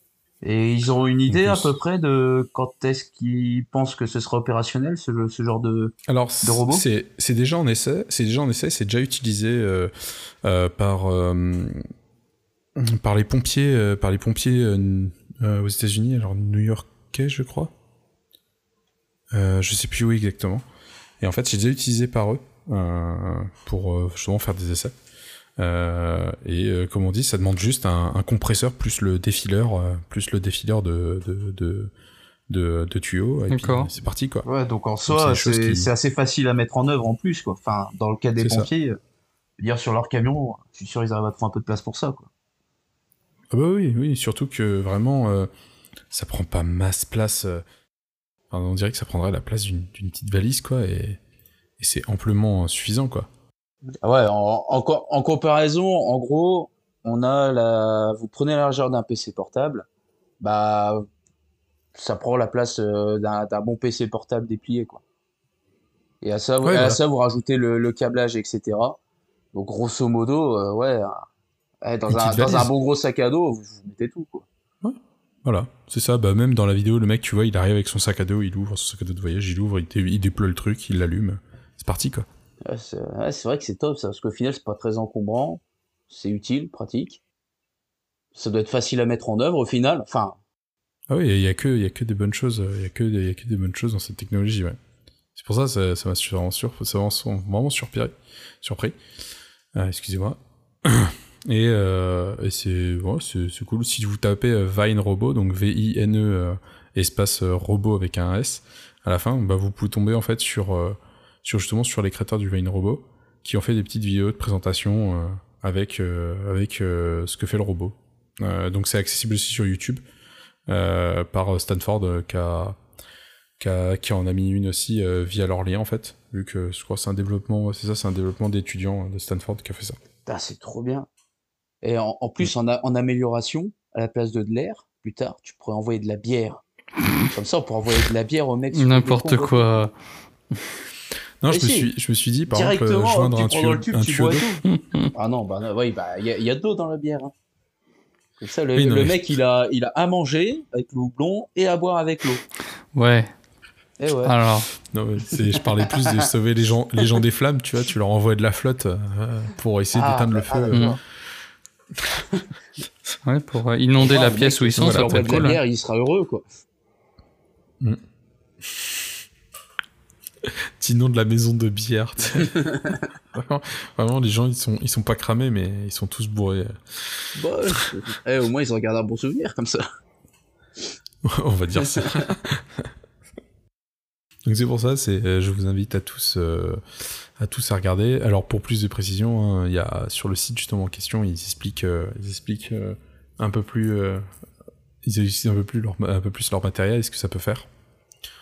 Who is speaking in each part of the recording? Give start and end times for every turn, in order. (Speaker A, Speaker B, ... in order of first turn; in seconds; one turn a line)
Speaker A: 0.4-6.8
Speaker B: 1.3-1.7
Speaker B: 6.1-9.9
Speaker B: 10.4-11.8
Speaker B: 12.8-17.7
Speaker B: 19.3-20.6
Speaker B: 21.2-24.9
Speaker B: 25.6-31.9
Speaker B: 32.5-34.5
Speaker C: 33.5-33.9
Speaker A: 34.5-39.0
Speaker B: 35.0-35.9
Speaker B: 38.4-38.7
Speaker A: 39.6-42.3
Speaker B: 43.5-45.5
Speaker B: 46.1-47.6
Speaker B: 48.5-51.2
Speaker B: 51.8-53.3
Speaker A: 54.0-59.8
Speaker A: 60.4-61.0
Speaker A: 61.9-65.0
Speaker A: 66.2-69.0
Speaker B: 66.6-67.0
Speaker A: 69.5-71.3
Speaker A: 71.8-74.4
Speaker B: 72.1-72.7
Speaker B: 74.8-82.3
Speaker A: 82.6-87.2
Speaker A: 88.3-90.4
Speaker B: 91.1-94.8
Speaker B: 95.3-99.0
Speaker B: 99.7-120.0
Speaker B: 120.7-122.8
Speaker B: 123.6-130.0
Speaker A: 130.2-131.1
Speaker A: 131.8-136.6
Speaker A: 137.2-139.7
Speaker C: 138.7-139.9
Speaker B: 141.4-144.5
Speaker A: 141.5-141.9
Speaker A: 142.5-144.6
Speaker C: 144.7-145.1
Speaker A: 145.1-147.3
Speaker A: 148.4-152.4
Speaker B: 148.8-149.3
Speaker C: 152.9-153.3
Speaker A: 154.0-154.3
Speaker C: 154.2-154.7
Speaker B: 154.9-160.9
Speaker A: 155.9-156.2
Speaker A: 159.9-161.0
Speaker C: 163.2-165.6
Speaker A: 164.0-166.4
Speaker B: 164.8-165.5
Speaker B: 170.4-172.7
Speaker B: 173.3-177.3
Speaker A: 177.3-179.8
Speaker B: 181.2-182.9
Speaker A: 181.8-182.3
Speaker B: 184.4-186.8
Speaker B: 187.4-194.2
Speaker B: 195.0-197.7